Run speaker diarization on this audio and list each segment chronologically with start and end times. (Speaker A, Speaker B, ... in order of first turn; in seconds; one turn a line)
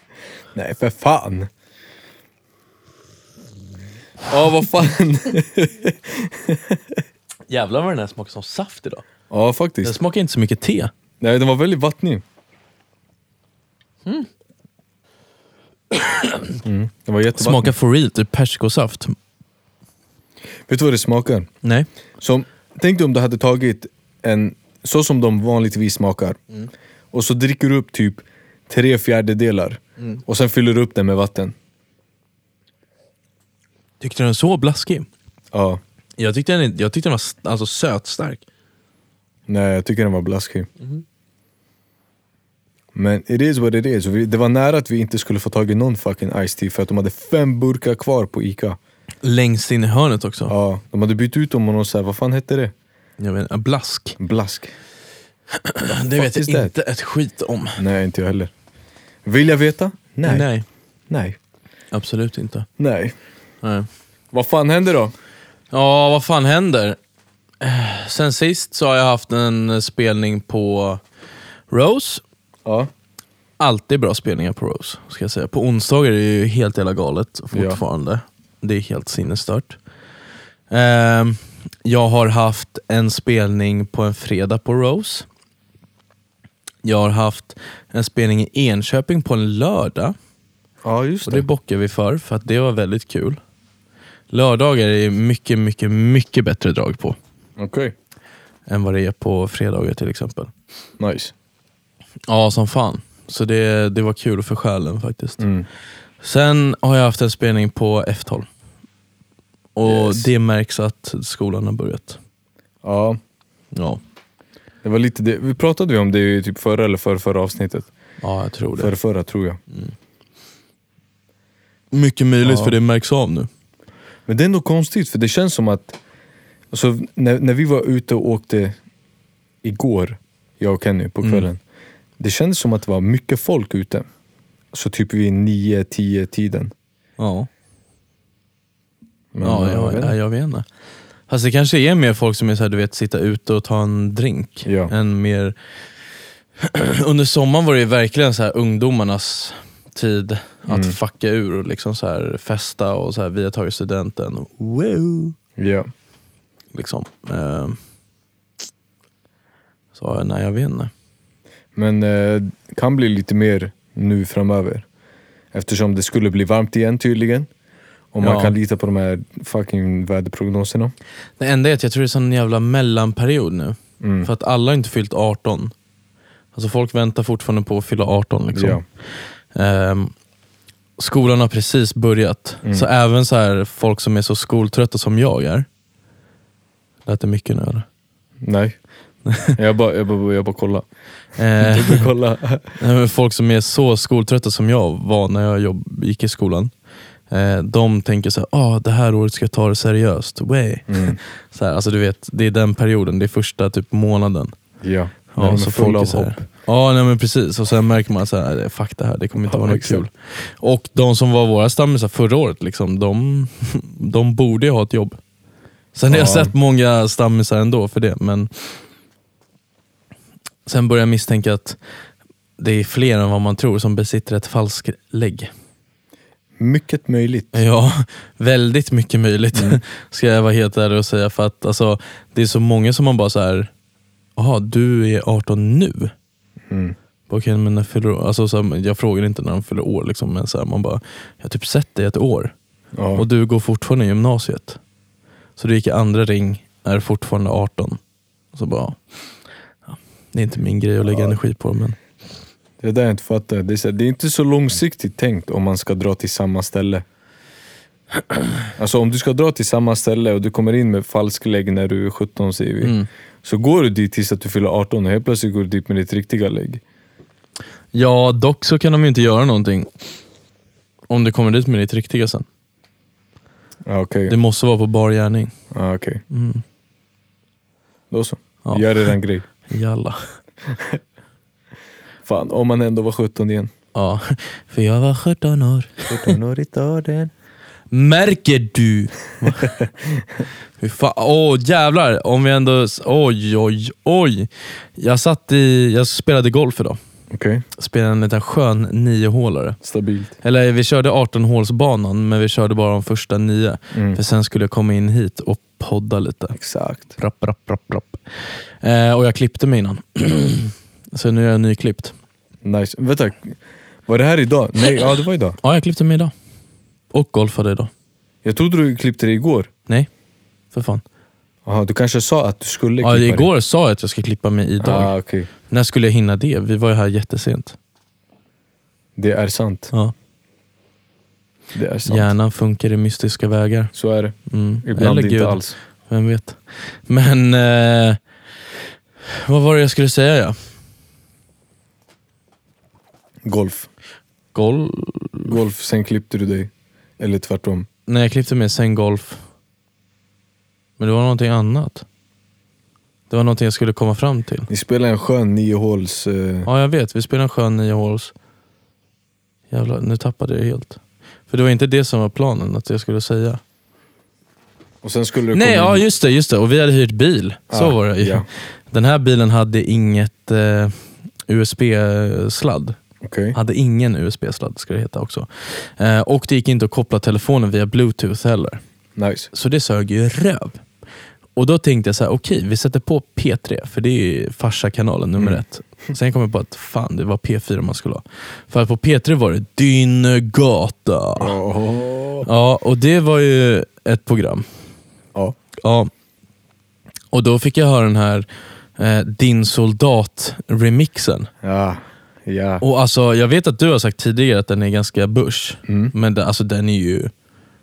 Speaker A: 0.5-1.5
Speaker A: 4.3-7.0
Speaker B: 7.5-9.1
Speaker A: 9.3-9.9
Speaker B: 9.8-10.9
Speaker A: 11.2-12.2
Speaker B: 15.9-16.6
Speaker A: 16.6-17.7
Speaker B: 17.3-19.1
Speaker A: 20.7-21.5
Speaker B: 21.6-21.9
Speaker A: 22.2-26.4
Speaker A: 27.1-31.5
Speaker B: 34.0-35.1
Speaker A: 35.5-35.8
Speaker B: 36.2-38.4
Speaker A: 39.5-40.7
Speaker A: 42.9-48.8
Speaker B: 49.2-50.5
Speaker A: 50.5-52.7
Speaker B: 53.2-54.2
Speaker A: 54.2-54.7
Speaker B: 55.6-57.8
Speaker A: 56.1-56.7
Speaker A: 57.8-58.5
Speaker A: 59.2-60.5
Speaker B: 60.2-60.6
Speaker A: 61.1-61.4
Speaker B: 61.9-62.7
Speaker A: 62.8-63.1
Speaker B: 63.6-63.9
Speaker A: 64.3-65.1
Speaker B: 65.7-67.0
Speaker B: 67.6-71.0
Speaker B: 71.7-72.2
Speaker A: 72.6-72.9
Speaker B: 73.6-79.8
Speaker A: 77.5-77.8
Speaker B: 80.7-85.2
Speaker B: 86.8-90.1
Speaker A: 90.8-91.5
Speaker B: 91.2-93.4
Speaker B: 94.3-97.2
Speaker A: 97.6-97.9
Speaker B: 98.7-100.5
Speaker A: 101.0-101.3
Speaker B: 102.3-105.4
Speaker A: 105.4-105.7
Speaker B: 106.2-108.5
Speaker B: 109.7-112.2
Speaker A: 109.8-110.3
Speaker A: 112.8-113.2
Speaker B: 113.7-114.0
Speaker A: 114.8-117.9
Speaker B: 118.2-118.9
Speaker A: 118.8-119.6
Speaker B: 121.9-123.5
Speaker A: 122.4-122.8
Speaker A: 124.3-126.0
Speaker A: 126.7-128.8
Speaker A: 129.6-131.6
Speaker A: 132.2-134.1
Speaker A: 134.7-136.7
Speaker B: 137.2-137.5
Speaker A: 139.3-140.1
Speaker B: 139.4-140.7
Speaker B: 141.3-145.5
Speaker A: 144.6-144.9
Speaker B: 146.6-155.3
Speaker A: 150.7-151.0
Speaker A: 155.6-155.9
Speaker B: 156.7-157.8
Speaker B: 159.9-160.9
Speaker A: 161.7-164.8
Speaker A: 165.5-167.5
Speaker A: 168.1-170.9
Speaker B: 168.2-168.5
Speaker B: 171.4-175.7
Speaker A: 174.0-174.3
Speaker B: 176.5-178.8
Speaker A: 178.5-178.8
Speaker B: 179.5-180.1
Speaker B: 181.0-185.7
Speaker B: 187.1-187.9
Speaker A: 188.4-188.8
Speaker B: 189.2-189.6
Speaker A: 189.5-190.8
Speaker B: 191.3-192.1
Speaker A: 191.6-192.7
Speaker B: 192.7-196.7
Speaker B: 197.3-204.5
Speaker A: 200.9-201.2
Speaker A: 204.8-206.4
Speaker B: 205.3-215.2
Speaker A: 209.4-210.0
Speaker B: 215.9-218.5
Speaker A: 216.1-216.5
Speaker B: 220.7-221.8
Speaker B: 222.6-225.5
Speaker A: 226.6-227.6
Speaker B: 227.5-233.7
Speaker A: 229.5-229.8
Speaker B: 234.3-236.1
Speaker A: 236.7-236.9
Speaker B: 237.3-242.5
Speaker A: 242.9-243.2
Speaker B: 243.1-244.8
Speaker B: 245.6-248.0
Speaker B: 248.5-249.0
Speaker B: 249.9-252.0
Speaker A: 251.1-251.4
Speaker A: 252.8-257.0
Speaker A: 258.8-266.8
Speaker B: 262.8-263.1
Speaker B: 267.9-269.9
Speaker B: 271.1-272.4
Speaker A: 273.8-274.3
Speaker B: 274.3-275.5
Speaker A: 275.7-276.2
Speaker B: 276.3-276.6
Speaker A: 278.1-279.4
Speaker B: 279.7-280.2
Speaker A: 280.7-281.0
Speaker A: 282.2-283.7
Speaker B: 283.9-286.3
Speaker A: 286.1-287.3
Speaker B: 287.9-289.8
Speaker A: 289.5-290.2
Speaker B: 290.8-297.0
Speaker A: 297.3-297.6
Speaker B: 297.8-299.8
Speaker A: 299.8-300.3
Speaker B: 300.4-306.6
Speaker A: 303.9-304.2
Speaker A: 306.5-307.1
Speaker B: 307.1-308.2
Speaker B: 308.8-312.1
Speaker A: 312.6-315.6
Speaker B: 315.6-316.3
Speaker B: 317.1-317.9
Speaker A: 318.4-319.7
Speaker B: 320.7-321.0
Speaker A: 321.6-323.5
Speaker B: 323.0-325.1
Speaker A: 324.8-325.5
Speaker B: 325.7-327.8
Speaker A: 329.1-329.9
Speaker A: 331.7-332.3
Speaker B: 332.1-333.9
Speaker A: 333.9-335.8
Speaker B: 334.5-338.2
Speaker B: 339.4-340.6
Speaker A: 343.4-343.9
Speaker B: 344.5-345.5
Speaker A: 345.4-347.9
Speaker B: 348.1-349.4
Speaker B: 351.0-352.0
Speaker B: 353.3-354.7
Speaker A: 354.7-356.7
Speaker B: 356.6-358.3
Speaker B: 359.7-363.6
Speaker A: 365.0-366.0
Speaker B: 365.5-373.0
Speaker A: 367.7-368.5
Speaker A: 373.2-373.6
Speaker B: 373.5-378.8
Speaker A: 379.1-379.5
Speaker B: 379.5-380.8
Speaker B: 381.6-391.6
Speaker A: 391.4-392.5
Speaker B: 392.4-394.6
Speaker B: 395.8-396.1
Speaker B: 397.3-398.4
Speaker B: 399.0-401.5
Speaker A: 401.6-402.8
Speaker B: 402.8-407.3
Speaker A: 405.9-406.1